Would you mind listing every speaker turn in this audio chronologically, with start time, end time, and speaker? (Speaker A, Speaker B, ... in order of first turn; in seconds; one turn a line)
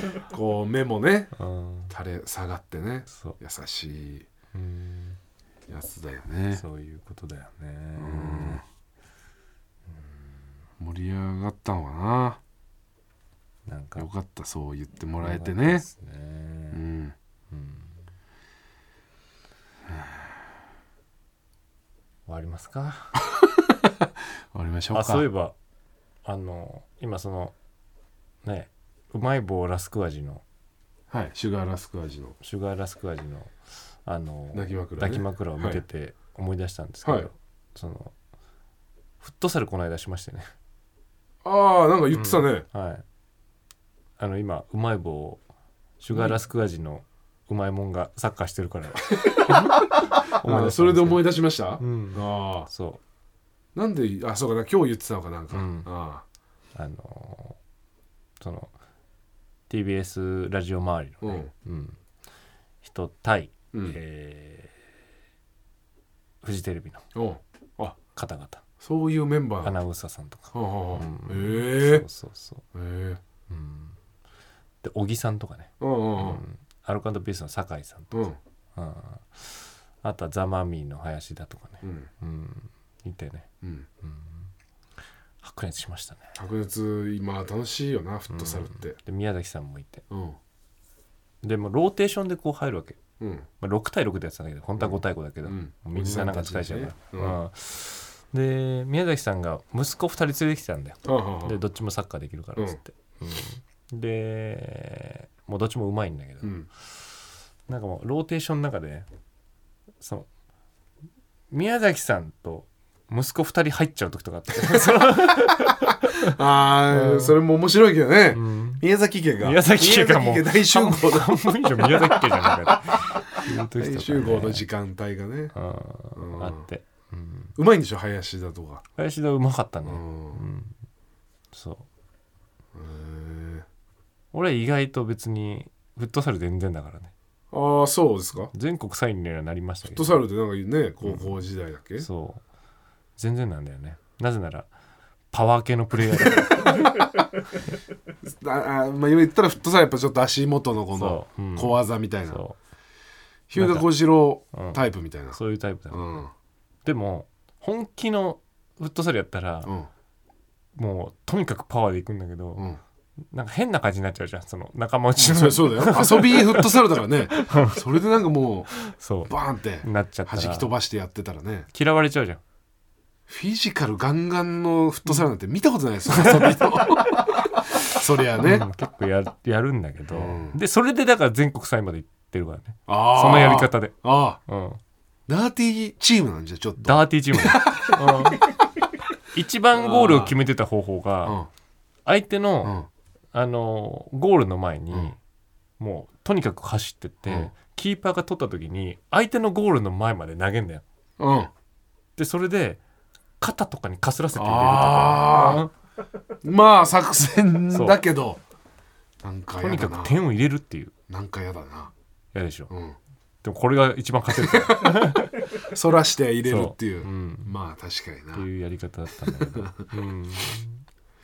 Speaker A: 0.3-1.3
Speaker B: 1.4-1.9
Speaker A: 1.9-4.3
Speaker B: 3.1-3.4
Speaker B: 4.5-5.2
Speaker A: 5.7-6.7
Speaker B: 6.5-8.6
Speaker A: 8.0-8.6
Speaker B: 9.9-10.3
Speaker A: 10.8-12.4
Speaker B: 13.7-14.1
Speaker A: 14.0-15.8
Speaker B: 15.2-16.8
Speaker A: 16.7-17.1
Speaker B: 17.5-17.9
Speaker B: 22.3-23.2
Speaker A: 23.3-25.3
Speaker B: 24.9-25.6
Speaker B: 26.2-27.6
Speaker B: 28.4-30.4
Speaker A: 31.1-32.4
Speaker B: 32.4-38.1
Speaker A: 34.5-35.8
Speaker A: 37.0-37.3
Speaker B: 39.2-40.5
Speaker A: 41.4-42.6
Speaker B: 42.1-43.0
Speaker B: 44.2-45.4
Speaker B: 46.0-53.0
Speaker A: 49.2-52.7
Speaker A: 53.8-56.2
Speaker B: 55.5-55.9
Speaker B: 56.8-57.6
Speaker B: 58.4-58.7
Speaker B: 59.7-62.0
Speaker A: 61.2-61.5
Speaker B: 62.8-64.8
Speaker B: 66.4-67.0
Speaker A: 67.2-68.0
Speaker B: 68.2-68.6
Speaker A: 68.8-69.8
Speaker B: 69.6-72.6
Speaker A: 70.5-72.0
Speaker A: 72.7-73.2
Speaker B: 73.5-74.0
Speaker B: 74.8-83.5
Speaker A: 75.8-76.4
Speaker A: 78.1-78.4
Speaker A: 81.8-82.1
Speaker A: 83.6-83.9
Speaker B: 84.0-84.5
Speaker B: 85.4-86.2
Speaker A: 86.4-89.0
Speaker B: 88.3-90.0
Speaker A: 90.1-90.4
Speaker B: 91.4-93.0
Speaker A: 93.2-93.5
Speaker B: 93.6-106.5
Speaker A: 94.8-97.4
Speaker A: 101.0-101.6
Speaker B: 107.7-109.1
Speaker B: 110.0-110.3
Speaker B: 111.5-116.4
Speaker A: 114.7-115.6
Speaker A: 116.3-125.5
Speaker B: 116.9-117.4
Speaker B: 118.3-118.8
Speaker B: 119.4-124.7
Speaker B: 125.5-127.5
Speaker A: 126.2-126.7
Speaker A: 127.6-128.8
Speaker B: 129.0-130.8
Speaker A: 129.8-130.4
Speaker B: 131.5-131.8
Speaker A: 132.8-133.7
Speaker B: 134.3-137.1
Speaker A: 137.5-138.5
Speaker B: 138.5-140.2
Speaker A: 139.8-142.1
Speaker B: 141.0-141.4
Speaker B: 142.0-142.4
Speaker B: 143.2-144.7
Speaker B: 145.3-147.1
Speaker A: 146.3-147.1
Speaker A: 148.3-152.4
Speaker B: 150.9-152.6
Speaker A: 153.5-155.4
Speaker B: 153.6-153.9
Speaker B: 154.5-154.8
Speaker B: 155.3-156.0
Speaker A: 155.9-156.3
Speaker B: 156.8-159.7
Speaker B: 160.8-162.7
Speaker B: 163.3-166.7
Speaker A: 165.2-171.7
Speaker B: 167.3-167.8
Speaker B: 168.8-170.7
Speaker B: 171.7-172.4
Speaker A: 173.3-178.7
Speaker B: 176.2-176.8
Speaker B: 178.4-184.8
Speaker A: 180.1-180.6
Speaker A: 182.9-184.4
Speaker A: 185.3-188.5
Speaker B: 186.8-188.4
Speaker B: 189.3-191.4
Speaker A: 189.7-190.4
Speaker B: 192.1-192.8
Speaker B: 193.3-195.2
Speaker B: 195.8-200.8
Speaker A: 197.3-197.5
Speaker A: 201.2-201.5
Speaker B: 202.2-202.8
Speaker B: 203.4-205.7
Speaker A: 204.3-205.7
Speaker A: 206.4-208.4
Speaker B: 207.7-208.0
Speaker A: 209.2-210.2
Speaker B: 209.6-210.9
Speaker A: 211.1-211.9
Speaker B: 212.3-212.7
Speaker A: 212.7-213.0
Speaker B: 213.4-215.6
Speaker A: 214.3-218.5
Speaker B: 216.4-217.5
Speaker B: 218.3-220.8
Speaker A: 219.3-219.8